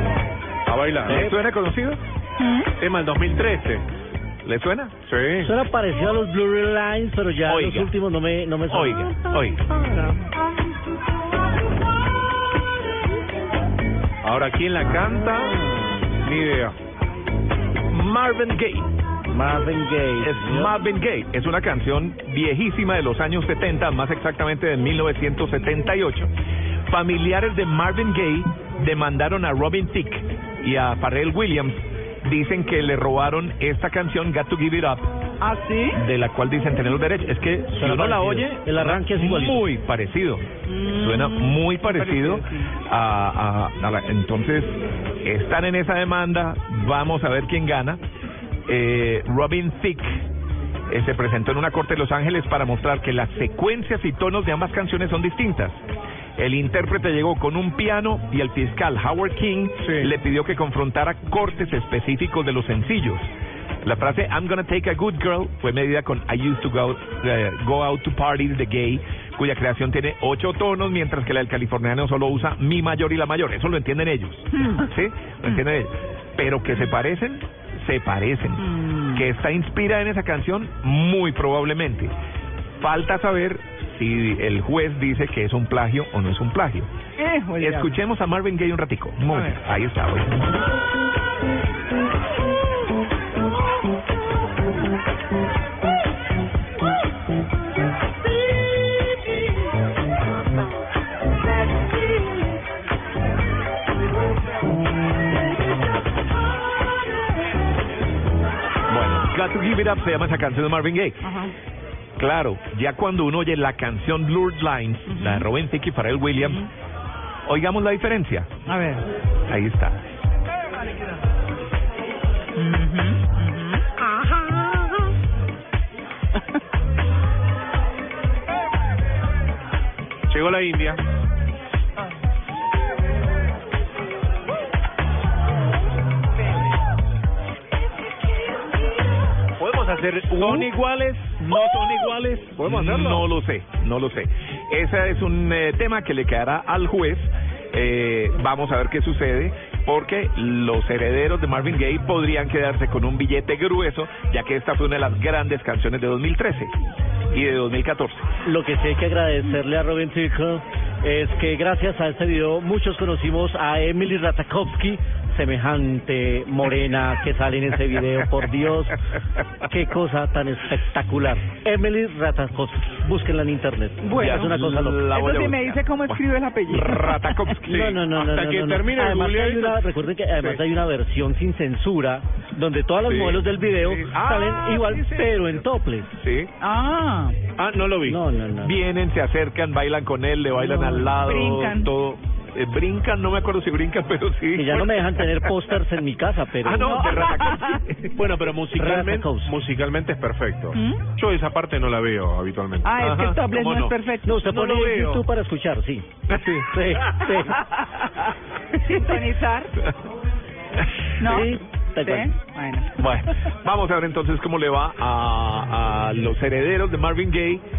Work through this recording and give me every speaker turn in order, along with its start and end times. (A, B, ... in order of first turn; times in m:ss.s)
0:00.7-0:01.3 A
0:01.0-0:02.0 B
0:01.1-0:01.4 C
0:02.4-0:02.7 D
0:02.8-0:03.8 A
0:04.4-0:05.0 B
0:05.0-0:05.5 A
0:05.4-0:09.1 C
0:07.5-0:07.9 B
0:08.7-0:09.6 B
0:14.2-0:15.6 A
0:16.2-0:16.8 A
0:17.9-0:18.9 B
0:19.3-0:20.8 C
0:20.2-0:26.3 B
0:26.9-0:35.1 B
0:35.4-0:36.0 D
0:35.9-0:48.0 B
0:37.8-0:39.7 C
0:40.7-0:42.7 D
0:48.7-0:50.2 B
0:50.9-0:55.8 B
0:56.4-1:03.3 B
0:59.8-1:00.1 A
1:03.8-1:22.1 B
1:14.5-1:14.9 D
1:18.6-1:19.2 D
1:22.8-1:26.9 B
1:27.2-1:28.0 D
1:27.6-1:30.4 B
1:29.3-1:29.6 D
1:48.9-1:51.3 B
1:51.2-1:51.5 D
1:52.2-1:56.7 B
1:55.1-1:55.5 D
1:57.5-1:58.5 B
1:58.7-1:59.1 D
1:59.5-2:00.0 B
2:02.6-2:03.9 D
2:10.3-2:11.0 A
2:19.6-2:23.3 A
2:20.2-2:36.7 B
2:37.3-2:38.3 B
2:38.4-2:49.0 C
2:49.6-2:55.0 C
2:54.0-2:57.6 D
2:54.2-2:58.0 B
2:57.7-3:06.2 C
2:57.7-3:00.6 A
3:03.0-3:06.5 B
3:06.6-3:07.4 D
3:07.6-3:08.2 A
3:08.0-3:08.8 C
3:08.6-3:15.5 B
3:10.6-3:11.9 D
3:14.6-3:17.0 C
3:16.6-3:18.2 B
3:16.8-3:17.8 D
3:18.2-3:23.1 A
3:18.7-3:19.6 C
3:20.7-3:21.0 D
3:22.8-3:24.5 D
3:23.0-3:24.0 B
3:24.2-3:26.1 C
3:24.3-3:25.2 A
3:26.3-3:26.7 B
3:26.7-3:27.6 C
3:27.5-3:28.1 D
3:28.7-3:29.7 D
3:31.2-3:33.0 D
3:31.2-3:32.3 C
3:33.0-3:37.6 B